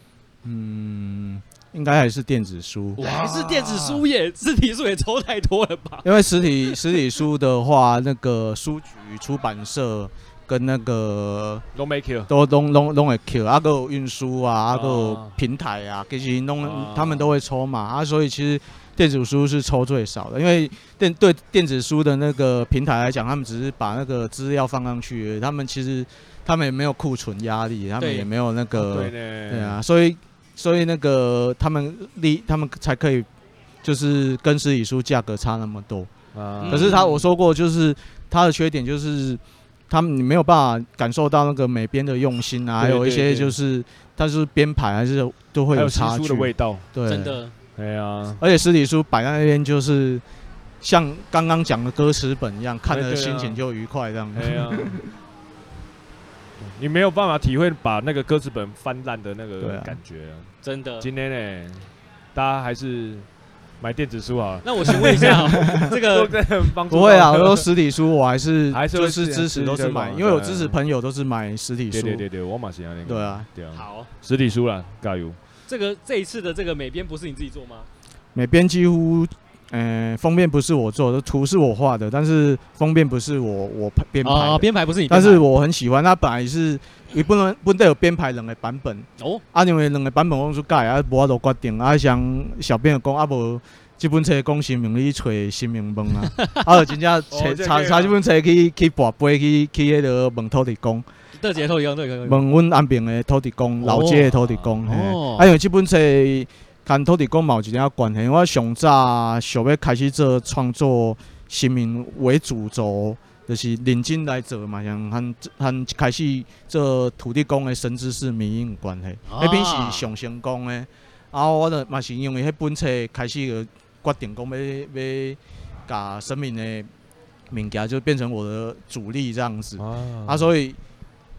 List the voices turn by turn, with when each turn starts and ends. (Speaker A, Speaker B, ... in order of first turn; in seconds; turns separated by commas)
Speaker A: 0.4-3.0, Speaker B: 3.0-4.0, Speaker C: 3.0-6.1, Speaker A: 6.0-11.6, Speaker B: 11.7-12.3, Speaker A: 12.3-33.3, Speaker B: 14.7-15.3, Speaker B: 16.6-17.3, Speaker C: 28.0-28.3, Speaker B: 28.8-29.8, Speaker A: 33.8-36.1, Speaker B: 36.3-37.0, Speaker C: 36.6-37.2, Speaker A: 36.7-47.4, Speaker B: 42.8-43.6, Speaker B: 45.7-46.9, Speaker C: 47.0-47.5, Speaker B: 47.8-48.4, Speaker A: 48.4-50.2, Speaker A: 50.8-55.0, Speaker B: 52.9-53.6, Speaker B: 54.4-55.0, Speaker B: 56.6-63.2, Speaker A: 59.6-60.0, Speaker C: 60.6-61.1, Speaker B: 63.8-67.7, Speaker C: 64.6-66.3, Speaker A: 65.2-65.9, Speaker A: 66.9-72.2, Speaker B: 68.7-70.8, Speaker B: 71.9-75.3, Speaker A: 73.0-73.5, Speaker C: 73.7-74.1, Speaker C: 75.7-77.9, Speaker A: 78.3-101.0, Speaker C: 84.2-85.4, Speaker B: 97.3-98.2, Speaker C: 101.4-102.4, Speaker A: 102.2-126.9, Speaker C: 103.8-105.5, Speaker C: 119.3-120.0, Speaker A: 127.5-130.8, Speaker B: 129.8-130.5